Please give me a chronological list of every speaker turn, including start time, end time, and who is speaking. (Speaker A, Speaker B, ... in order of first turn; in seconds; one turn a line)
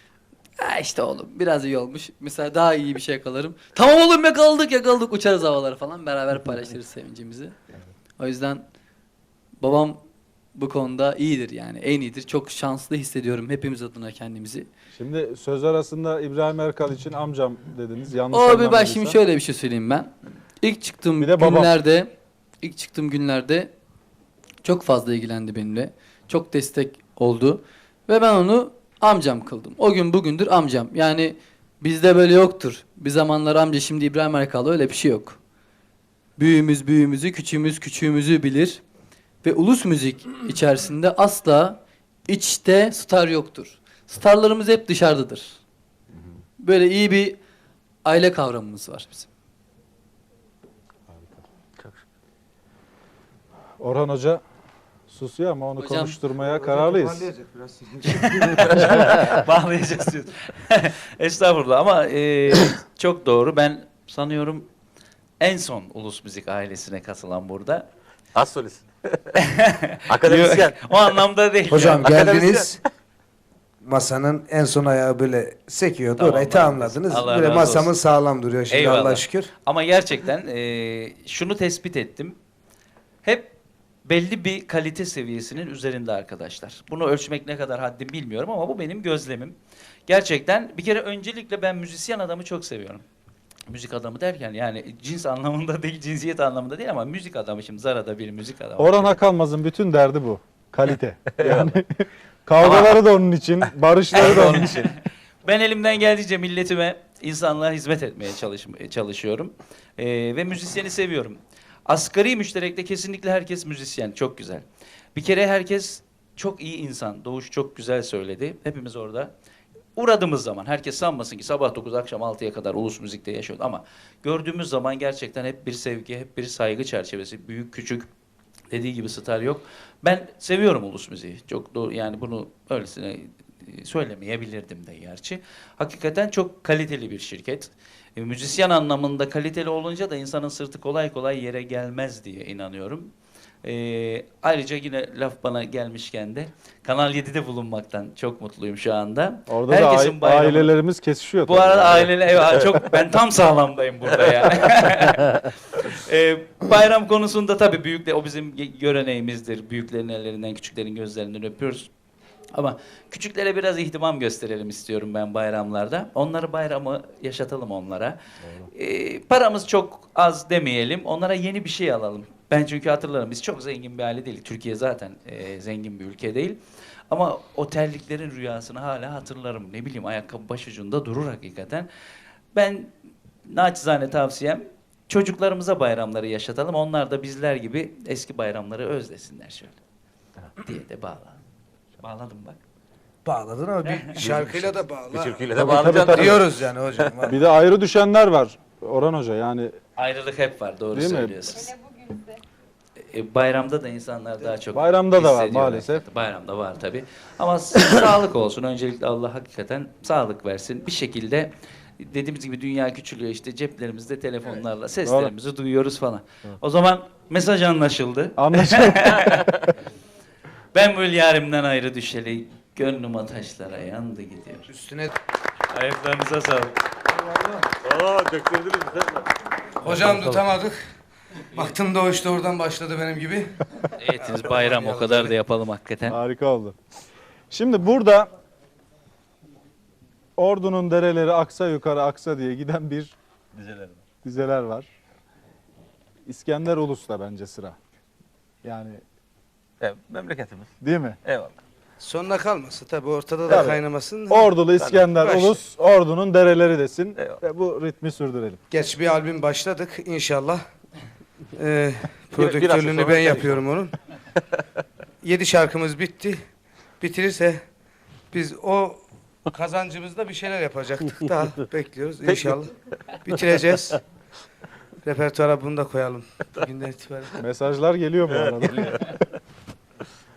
Speaker A: 0.6-7.5
Speaker A: 8.2-8.6
Speaker A: 9.6-10.0
Speaker A: 10.5-14.7
Speaker B: 14.9-19.2
Speaker A: 18.3-23.7
Speaker B: 21.2-21.7
Speaker A: 24.6-35.4
Speaker A: 36.4-38.8
Speaker A: 39.4-45.6
Speaker A: 46.6-47.4
Speaker A: 48.0-49.3
Speaker B: 53.8-54.4
Speaker B: 55.1-57.2
Speaker A: 55.8-56.2
Speaker C: 56.4-58.7
Speaker D: 58.1-64.7
Speaker E: 58.9-59.2
Speaker D: 65.4-67.8
Speaker E: 68.3-68.9
Speaker D: 69.5-72.1
Speaker E: 70.1-70.9
Speaker C: 71.7-72.8
Speaker E: 72.0-72.7
Speaker C: 73.8-79.5
Speaker D: 76.1-77.9
Speaker D: 78.7-82.3
Speaker D: 83.2-83.5
Speaker D: 84.0-89.5
Speaker D: 90.1-93.0
Speaker D: 93.7-99.2
Speaker B: 98.8-104.9
Speaker E: 101.4-101.7
Speaker D: 102.6-103.0
Speaker D: 104.1-114.6
Speaker E: 104.2-104.9
Speaker D: 115.1-119.3
Speaker D: 120.0-128.1
Speaker D: 128.7-143.1
Speaker D: 143.6-150.7
Speaker B: 149.5-152.6
Speaker D: 151.4-161.9
Speaker D: 162.5-176.6
Speaker D: 177.1-181.9
Speaker D: 182.5-182.9
Speaker D: 183.5-189.8
Speaker D: 190.6-191.4
Speaker D: 192.0-192.6
Speaker C: 193.2-195.5
Speaker D: 193.9-194.2
Speaker E: 194.2-196.4
Speaker B: 195.5-196.4
Speaker C: 196.1-197.4
Speaker B: 197.2-199.7
Speaker D: 200.0-201.8
Speaker B: 200.9-201.4
Speaker D: 203.1-219.5
Speaker B: 204.7-206.0
Speaker B: 215.0-215.3
Speaker B: 218.3-219.7
Speaker D: 220.7-224.7
Speaker C: 224.7-225.1
Speaker D: 225.7-226.8
Speaker C: 227.1-227.7
Speaker E: 227.8-229.2
Speaker C: 229.8-230.8
Speaker E: 229.9-230.3
Speaker C: 231.5-233.6
Speaker D: 234.0-236.2
Speaker C: 234.2-235.3
Speaker B: 236.1-236.8
Speaker B: 237.5-238.3
Speaker B: 240.4-243.1
Speaker E: 243.5-244.0
Speaker B: 244.2-244.9
Speaker B: 246.2-247.8
Speaker B: 248.6-249.0
Speaker E: 249.8-250.7
Speaker B: 250.8-251.2
Speaker E: 251.2-251.6
Speaker C: 252.0-254.5
Speaker B: 253.5-258.6
Speaker C: 255.2-255.6
Speaker C: 258.7-260.6
Speaker C: 261.6-263.9
Speaker E: 262.4-263.6
Speaker C: 265.2-266.4
Speaker C: 267.0-267.6
Speaker C: 268.3-272.7
Speaker E: 272.2-272.6
Speaker C: 273.2-274.0
Speaker C: 275.0-277.4
Speaker B: 277.4-279.2